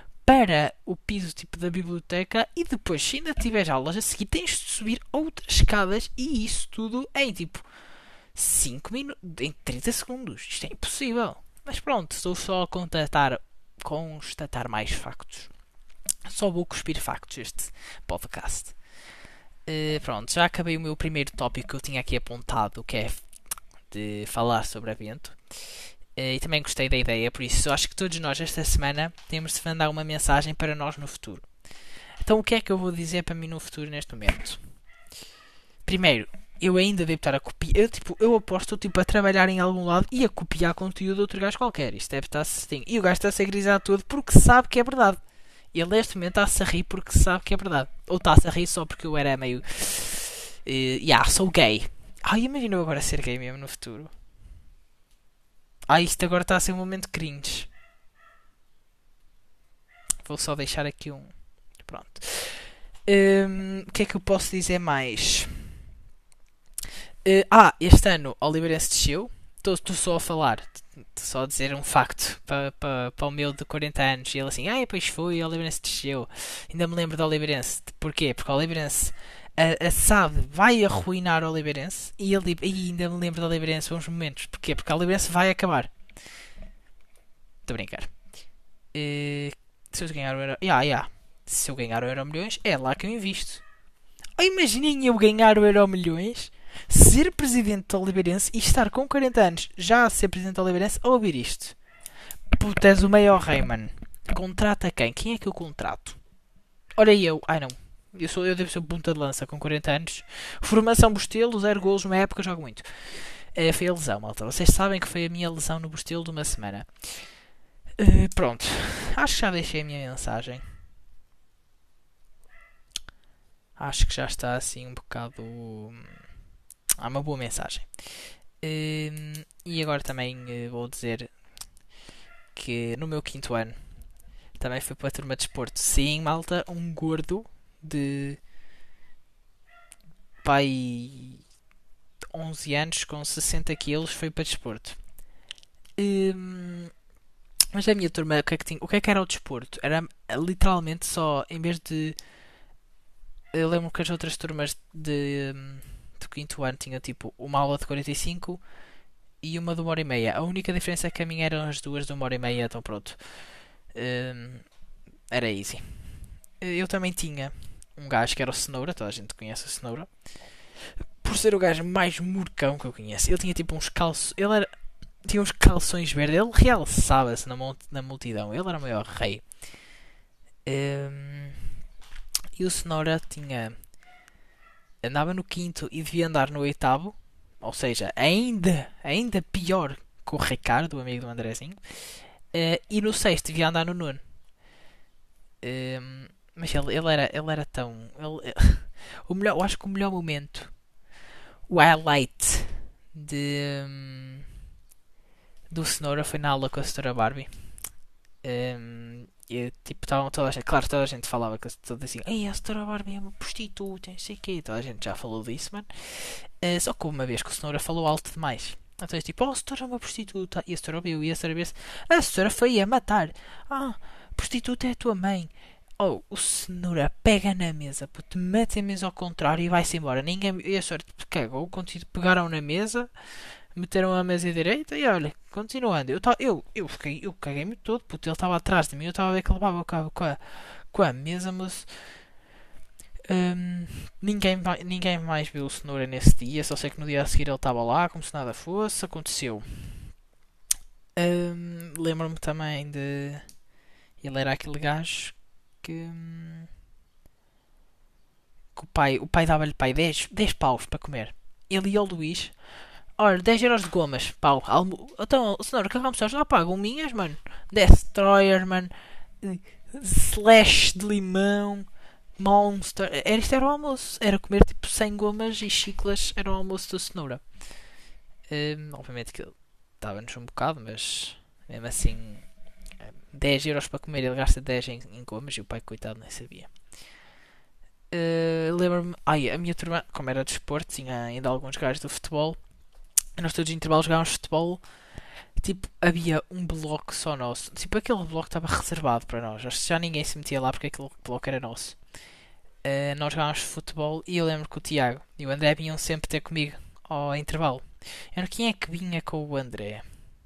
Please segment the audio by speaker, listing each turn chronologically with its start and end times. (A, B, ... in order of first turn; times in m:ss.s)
0:00.2-0:07.7 A
0:08.3-0:15.5 A
0:16.2-0:18.8 A
0:19.6-0:23.2 A
0:23.9-0:25.4 A
0:26.2-0:31.5 A
0:32.2-0:34.6 A
0:35.8-0:45.2 A
0:45.7-0:54.1 A
0:55.9-0:57.7 A
1:00.2-1:05.7 A
1:07.2-1:25.9 A
1:27.6-1:28.1 A
1:28.9-1:33.6 A
1:34.4-1:41.8 A
1:42.5-1:46.2 A
1:47.0-1:57.4 A
1:58.0-2:00.6 A
2:03.8-2:06.2 A
2:07.0-2:11.3 A
2:12.5-2:13.8 A
2:14.6-2:18.4 A
2:20.4-2:21.4 A
2:22.3-2:25.0 A
2:26.0-2:26.9 A
2:27.7-2:32.2 A
2:33.5-2:38.6 A
2:39.4-2:44.7 A
2:45.3-2:50.1 A
2:51.2-2:54.7 A
2:55.2-2:59.5 A
3:00.6-3:01.6 A
3:02.5-3:03.7 A
3:05.0-3:11.8 A
3:12.5-3:14.2 A
3:15.6-3:20.8 A
3:21.7-3:24.4 A
3:25.7-3:27.8 A
3:28.4-3:53.1 A
3:53.7-4:01.9 A
4:03.3-4:10.1 A
4:11.2-4:13.5 A
4:14.2-4:16.7 A
4:18.8-4:22.5 A
4:23.2-4:31.9 A
4:32.4-4:37.4 A
4:38.5-4:42.5 A
4:43.0-4:46.7 A
4:48.1-4:52.6 A
4:53.4-4:54.8 A
4:55.6-5:02.0 A
5:02.8-5:10.0 A